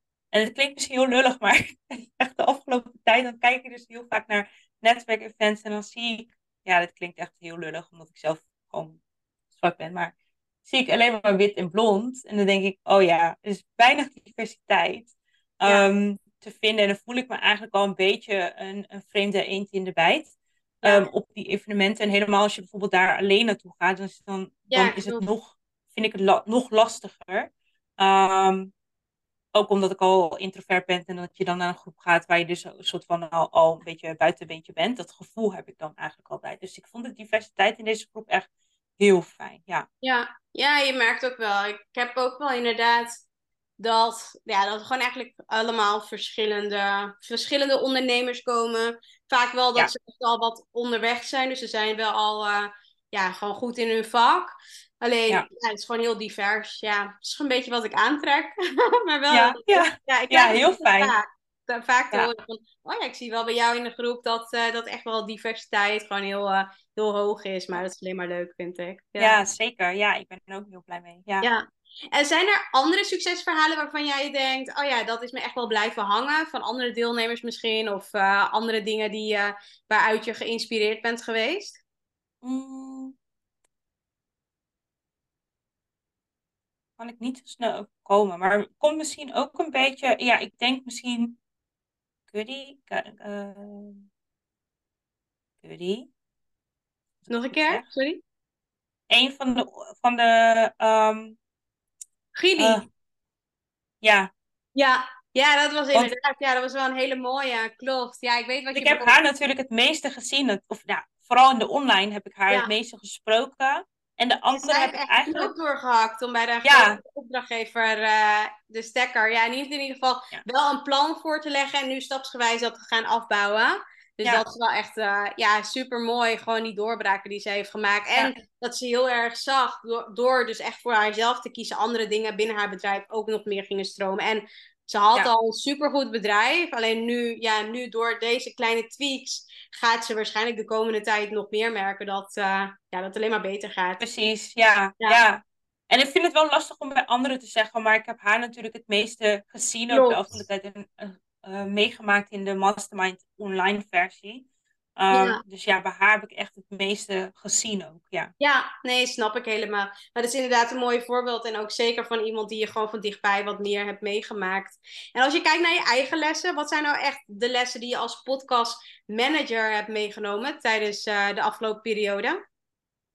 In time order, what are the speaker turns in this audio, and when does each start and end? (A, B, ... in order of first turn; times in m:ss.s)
0:00.3-0:09.0 A
0:09.5-0:10.1 A
0:10.6-0:28.7 A
0:20.8-0:21.1 B
0:24.7-0:25.2 B
0:29.5-0:39.9 A
0:40.0-0:43.2 B
0:43.8-1:09.4 B
0:59.3-1:01.1 A
1:09.2-1:11.5 A
1:11.4-1:21.8 B
1:22.4-1:23.1 A
1:27.0-1:31.4 A
1:32.3-1:34.0 A
1:35.6-1:36.1 A
1:37.2-1:37.8 A
1:37.3-1:38.2 B
1:39.1-1:41.4 A
1:42.4-1:42.9 B
1:42.6-1:42.9 A
1:44.0-1:44.3 A
1:44.8-1:49.1 B
1:48.7-1:55.5 A
1:54.5-2:24.0 B
1:56.6-1:57.0 A
2:24.0-2:34.4 A
2:29.9-2:30.2 B
2:35.0-2:38.3 A
2:35.1-2:35.4 B
2:38.4-2:52.4 B